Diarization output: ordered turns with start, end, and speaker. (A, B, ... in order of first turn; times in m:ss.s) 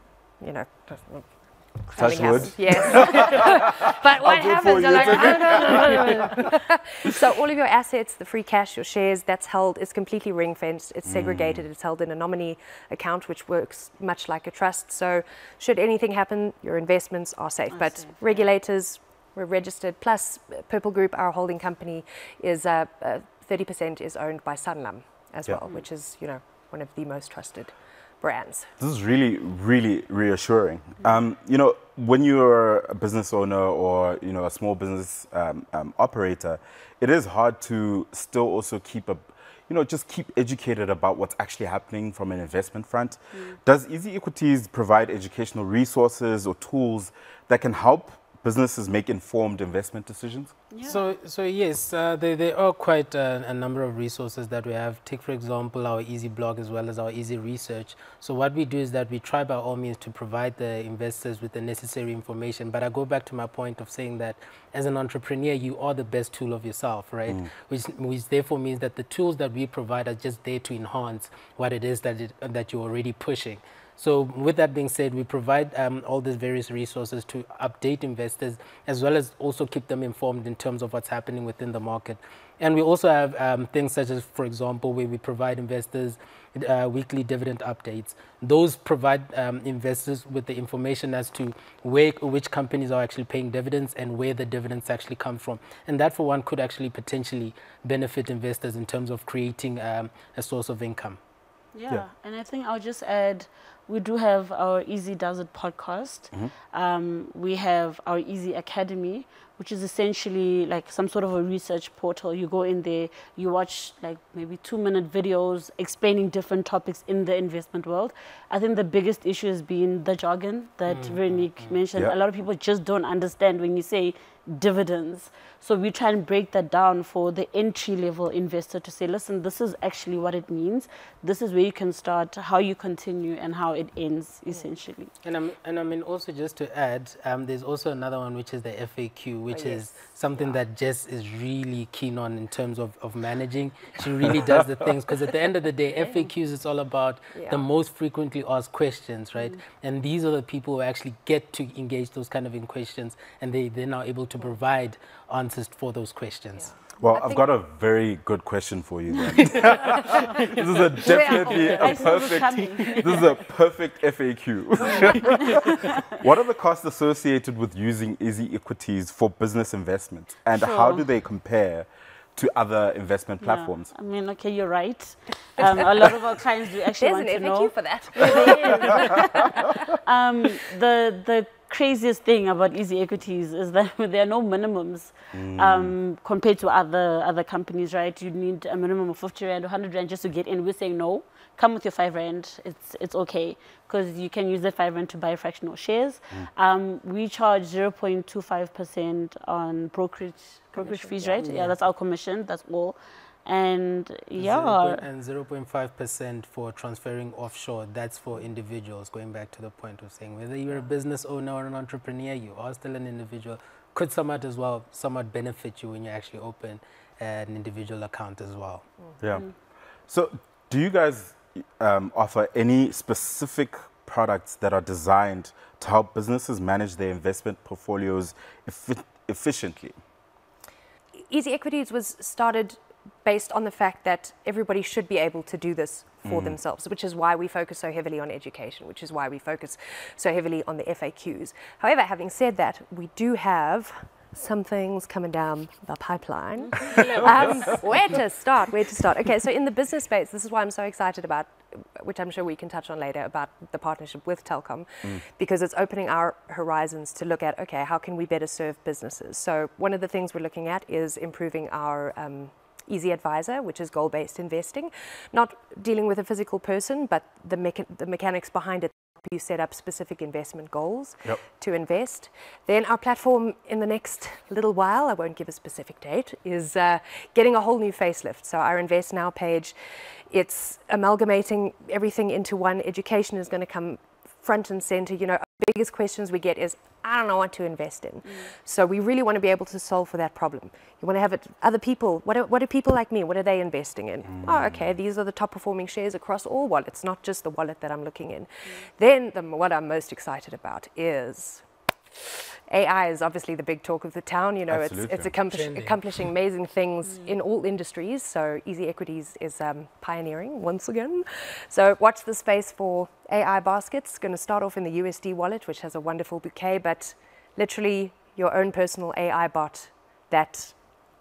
0:00.4-0:28.7 A
0:02.0-0:03.4 B
0:04.2-0:06.2 B
0:11.1-0:11.6 B
0:17.7-0:18.5 C
0:28.8-0:50.5 B
0:50.7-0:51.0 C
0:50.8-1:41.2 D
1:41.7-2:15.1 C
2:00.9-2:01.8 D
2:15.2-2:36.7 D
2:19.5-2:20.6 A
2:26.0-2:26.3 A
2:27.3-2:27.6 A
2:36.6-2:37.5 A
2:37.0-2:53.9 B
2:39.3-2:40.0 C
2:41.0-2:42.0 A
2:41.4-2:43.4 C
2:44.9-2:46.0 C
2:50.5-2:51.1 C
2:53.4-3:25.1 C
2:57.0-2:59.2 A
3:05.3-3:06.0 B
3:20.8-3:21.4 A
3:21.4-3:21.8 D
3:24.4-3:38.8 D
3:39.2-3:39.5 B
3:40.1-3:50.0 B
3:51.3-4:39.7 A
3:56.2-3:56.6 B
4:06.7-4:07.3 C
4:40.3-5:01.6 A
4:54.4-4:54.9 B
5:02.7-5:20.8 A
5:04.7-5:05.3 B
5:05.5-5:06.0 D
5:07.1-5:07.3 C